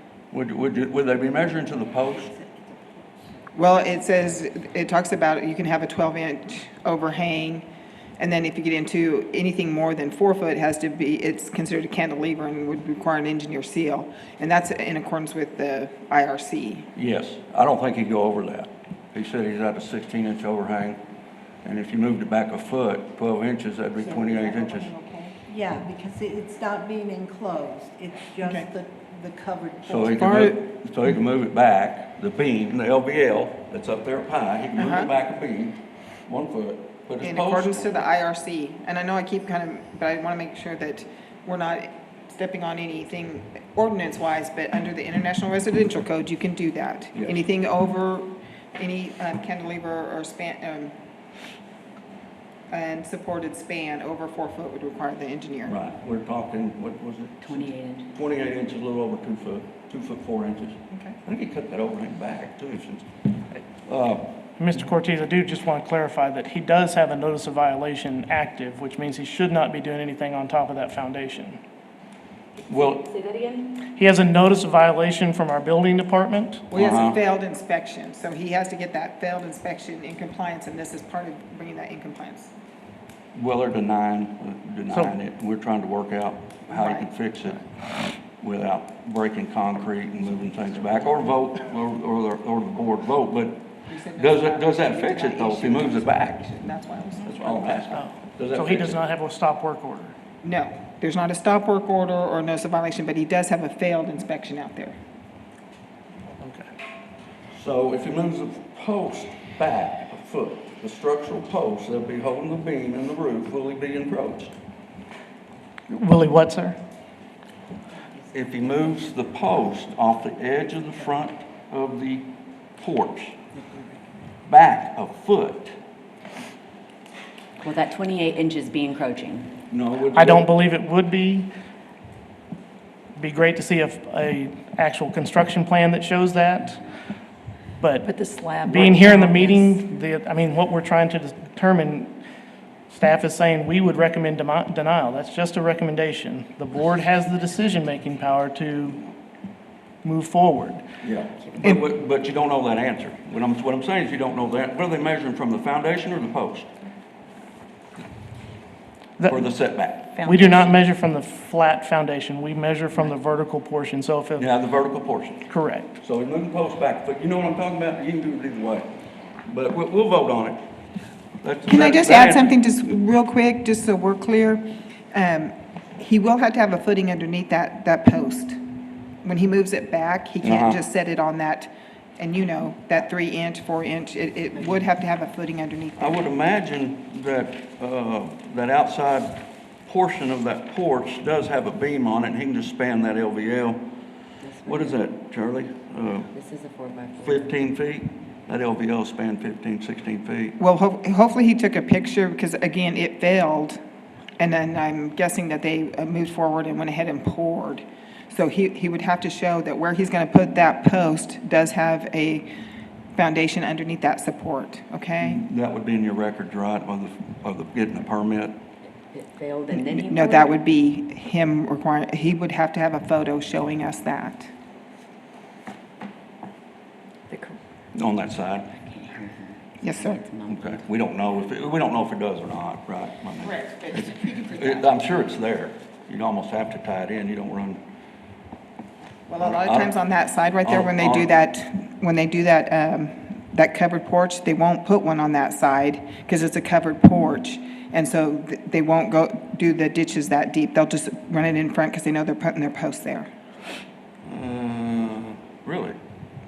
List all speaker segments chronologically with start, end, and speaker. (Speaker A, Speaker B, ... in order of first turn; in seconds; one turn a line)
Speaker A: 0.3-2.3
Speaker B: 2.4-3.0
Speaker C: 3.5-7.7
Speaker C: 8.2-16.9
Speaker A: 16.9-21.0
Speaker A: 21.6-24.9
Speaker B: 24.0-30.5
Speaker A: 29.8-38.0
Speaker C: 30.2-30.6
Speaker C: 34.8-35.1
Speaker C: 37.2-50.9
Speaker A: 47.1-47.4
Speaker C: 52.7-55.7
Speaker A: 55.6-64.3
Speaker D: 57.4-58.1
Speaker C: 60.9-61.2
Speaker E: 64.6-71.6
Speaker A: 72.7-73.1
Speaker D: 72.9-73.7
Speaker E: 73.9-76.7
Speaker C: 76.7-82.5
Speaker A: 76.7-77.2
Speaker A: 83.3-96.5
Speaker C: 86.7-87.1
Speaker C: 93.9-98.0
Speaker A: 97.2-99.0
Speaker E: 97.9-100.1
Speaker C: 100.4-105.0
Speaker E: 106.4-106.7
Speaker A: 107.5-114.5
Speaker E: 115.9-116.8
Speaker A: 118.3-123.3
Speaker D: 123.5-123.9
Speaker A: 124.5-125.8
Speaker D: 127.6-129.5
Speaker A: 129.7-130.5
Speaker E: 130.1-131.5
Speaker E: 133.2-136.8
Speaker E: 137.8-138.1
Speaker F: 138.0-139.9
Speaker E: 138.6-142.2
Speaker E: 142.9-149.1
Speaker E: 150.0-150.8
Speaker A: 151.0-156.7
Speaker D: 151.4-151.7
Speaker E: 159.2-159.4
Speaker A: 159.2-160.2
Speaker F: 160.2-160.8
Speaker E: 160.2-164.5
Speaker A: 164.4-165.5
Speaker E: 165.5-165.9
Speaker A: 166.0-168.9
Speaker A: 169.4-170.6
Speaker A: 171.4-172.6
Speaker C: 171.7-178.6
Speaker C: 179.2-186.2
Speaker A: 180.4-180.8
Speaker A: 186.0-193.8
Speaker D: 194.4-195.0
Speaker A: 194.7-196.3
Speaker D: 196.3-197.6
Speaker A: 197.2-200.6
Speaker C: 200.6-203.8
Speaker C: 204.4-212.5
Speaker C: 213.1-215.4
Speaker A: 215.2-218.6
Speaker D: 219.1-220.6
Speaker C: 219.7-224.5
Speaker D: 227.3-227.6
Speaker A: 227.9-228.7
Speaker D: 228.8-230.8
Speaker C: 229.8-230.2
Speaker A: 230.5-237.8
Speaker C: 233.4-234.9
Speaker C: 239.3-253.3
Speaker A: 239.4-239.9
Speaker A: 240.6-241.3
Speaker A: 254.2-256.0